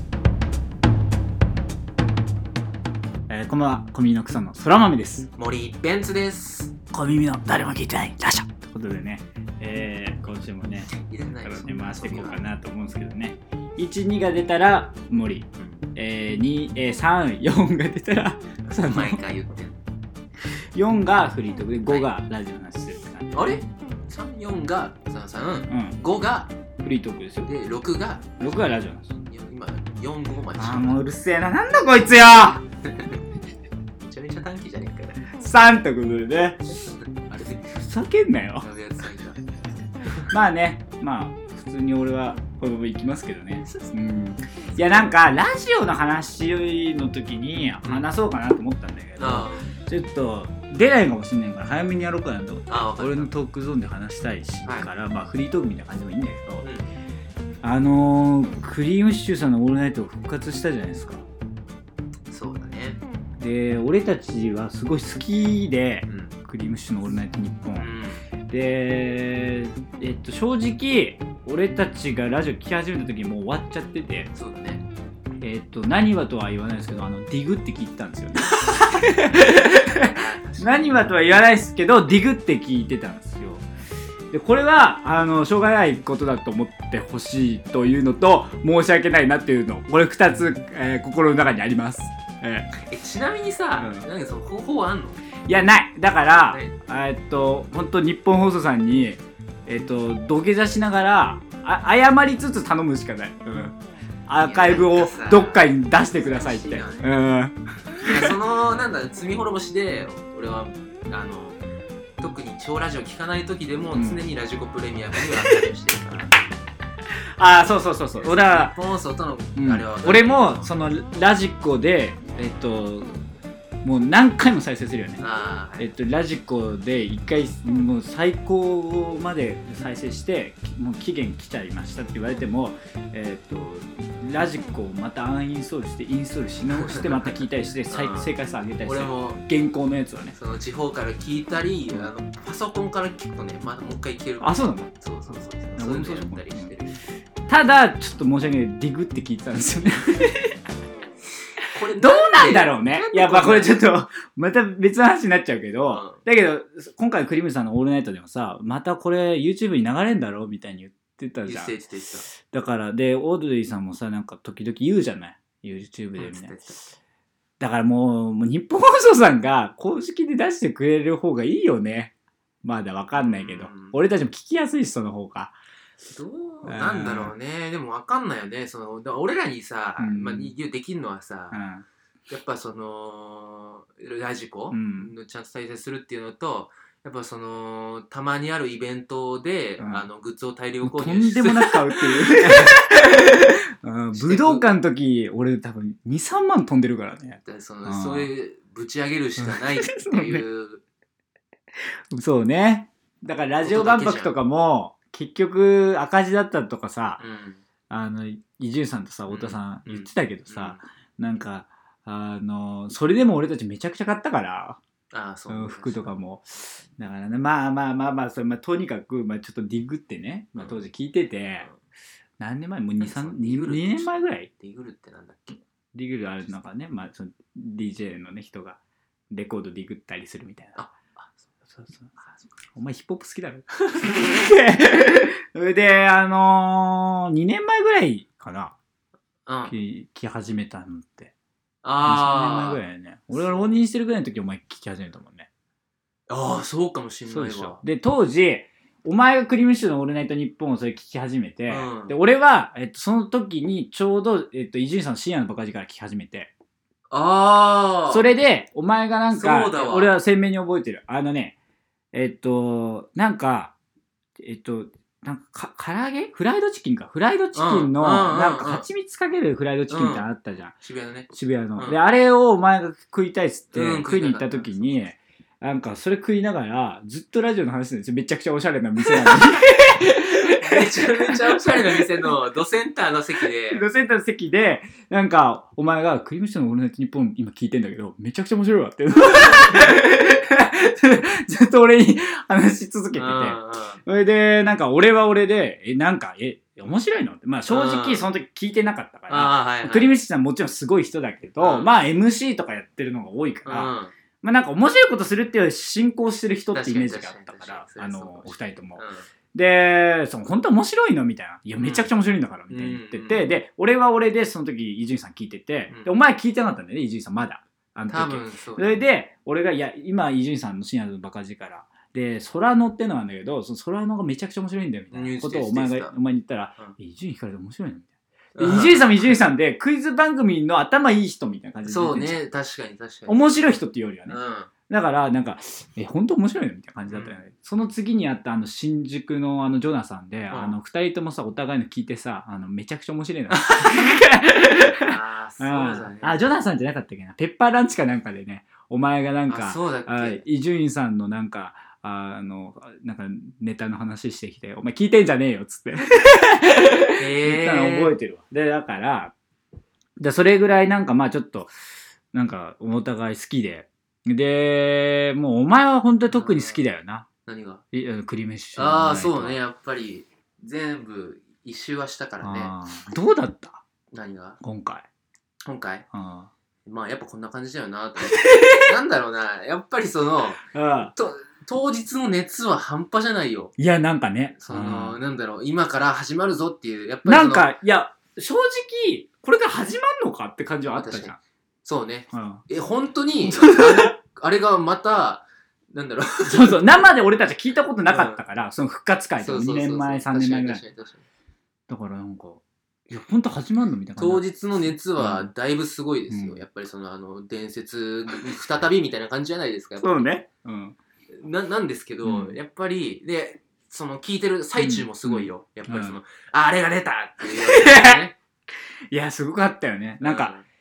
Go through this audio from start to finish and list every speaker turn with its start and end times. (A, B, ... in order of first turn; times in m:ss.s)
0:03.3-0:05.3 A
0:05.4-0:06.7 B
0:06.9-0:10.9 A
0:10.9-0:12.4 B
0:11.4-0:19.2 A
0:15.6-0:15.9 B
0:18.7-0:19.8 B
0:20.7-0:23.6 A
0:21.8-0:22.1 B
0:23.3-0:26.5 B
0:25.7-0:26.0 A
0:26.8-0:27.5 A
0:27.4-0:28.3 B
0:28.4-0:29.2 A
0:29.3-0:31.0 B
0:30.6-0:32.6 A
0:32.8-0:33.2 B
0:34.0-0:35.2 B
0:35.3-0:36.6 A
0:37.1-0:37.8 B
0:37.8-0:38.7 A
0:38.6-0:39.4 B
0:40.3-0:56.7 A
0:44.7-0:45.1 B
0:47.8-0:48.1 B
0:49.2-0:49.7 B
0:52.7-0:53.3 B
0:56.6-0:56.9 B
0:57.6-1:01.2 A
1:02.3-1:03.0 B
1:03.4-1:07.9 A
1:06.1-1:06.3 B
1:07.8-1:08.3 B
1:08.5-1:14.3 A
1:14.3-1:14.8 B
1:15.4-1:23.7 A
1:19.8-1:21.0 B
1:24.3-1:32.7 A
1:32.9-1:35.2 B
1:33.8-1:34.1 A
1:35.4-1:48.3 A
1:36.4-1:36.8 B
1:44.4-1:47.1 B
1:48.0-1:51.6 B
1:52.2-1:56.3 B
1:53.9-1:54.2 A
1:57.4-1:58.8 A
1:58.2-2:00.7 B
1:59.6-2:03.2 A
2:03.8-2:05.2 A
2:05.2-2:05.9 B
2:05.8-2:20.3 A
2:16.7-2:17.3 B
2:17.9-2:19.4 B
2:20.3-2:27.0 B
2:24.4-2:26.8 A
2:27.5-2:30.6 A
2:31.7-2:33.9 B
2:32.0-2:41.7 A
2:35.9-2:36.2 B
2:41.4-2:42.3 B
2:42.3-2:46.8 A
2:46.2-2:46.8 B
2:47.6-2:52.1 A
2:52.6-2:55.6 A
2:53.2-2:54.0 B
2:56.1-3:01.6 B
2:56.6-2:57.3 A
3:00.0-3:00.5 A
3:01.5-3:01.9 A
3:02.3-3:12.8 B
3:04.7-3:05.1 A
3:09.8-3:10.1 A
3:10.8-3:18.3 A
3:14.1-3:14.6 B
3:17.3-3:20.8 B
3:19.4-3:20.4 A
3:22.1-3:27.2 A
3:23.6-3:24.3 B
3:27.2-3:27.6 B
3:27.9-3:34.8 A
3:29.3-3:30.8 B
3:35.1-3:36.1 B
3:35.5-3:41.7 A
3:40.6-3:40.8 B
3:42.4-3:44.5 A
3:43.0-3:45.6 B
3:45.9-3:48.8 A
3:49.3-3:50.9 A
3:50.8-3:51.5 B
3:51.7-3:52.2 A
3:52.7-3:58.8 A
3:59.5-3:59.7 B
3:59.7-4:01.3 A
4:01.8-4:02.8 B
4:02.0-4:05.5 A
4:03.3-4:03.7 B
4:06.3-4:07.8 B
4:07.3-4:16.5 A
4:11.7-4:12.2 B
4:17.1-4:18.3 B
4:18.1-4:21.5 A
4:19.3-4:20.1 B
4:22.1-4:23.7 A
4:24.4-4:30.8 A
4:27.5-4:28.9 B
4:29.9-4:30.3 B
4:30.8-4:32.0 B
4:31.3-4:42.3 A
4:33.7-4:35.1 B
4:39.0-4:39.4 B
4:40.6-4:43.8 B
4:43.7-5:03.9 A
4:49.3-4:49.9 B
4:53.1-4:54.0 B
4:57.7-4:58.3 B
4:59.3-5:00.2 B
5:01.6-5:01.9 B
5:03.6-5:04.1 B
5:04.4-5:09.0 A
5:06.7-5:09.3 B
5:09.5-5:32.4 A
5:11.8-5:12.1 B
5:12.7-5:13.5 B
5:18.1-5:19.1 B
5:25.1-5:26.1 B
5:28.5-5:29.5 B
5:31.9-5:34.7 B
5:33.3-5:34.4 A
5:34.9-5:59.3 A
5:37.1-5:37.3 B
5:40.5-5:40.8 B
5:43.5-5:43.9 B
5:45.0-5:46.5 B
5:49.5-5:50.4 B
5:57.2-5:58.1 B
6:00.2-6:01.7 A
6:02.3-6:07.2 A
6:06.3-6:06.9 B
6:07.4-6:07.8 B
6:07.9-6:09.6 A
6:08.8-6:12.7 B
6:12.4-6:13.8 A
6:14.1-6:14.6 B
6:14.6-6:15.1 A
6:15.6-6:16.1 B
6:16.1-6:16.5 A
6:16.8-6:20.6 B
6:18.3-6:18.9 A
6:20.7-6:21.1 A
6:21.1-6:23.7 B
6:23.8-6:25.2 A
6:24.6-6:27.7 B
6:27.2-6:31.4 A
6:30.9-6:37.0 B
6:32.3-6:32.6 A
6:33.5-6:33.8 A
6:36.5-6:40.8 A
6:38.1-6:38.4 B
6:39.4-6:41.2 B
6:41.9-6:45.5 A
6:44.2-6:50.3 B
6:46.3-6:46.6 A
6:50.0-6:51.0 A
6:51.3-6:58.3 B
6:52.2-6:52.6 A
6:54.8-6:56.2 A
6:57.5-6:58.3 A
6:59.1-7:00.5 A
7:00.2-7:00.6 B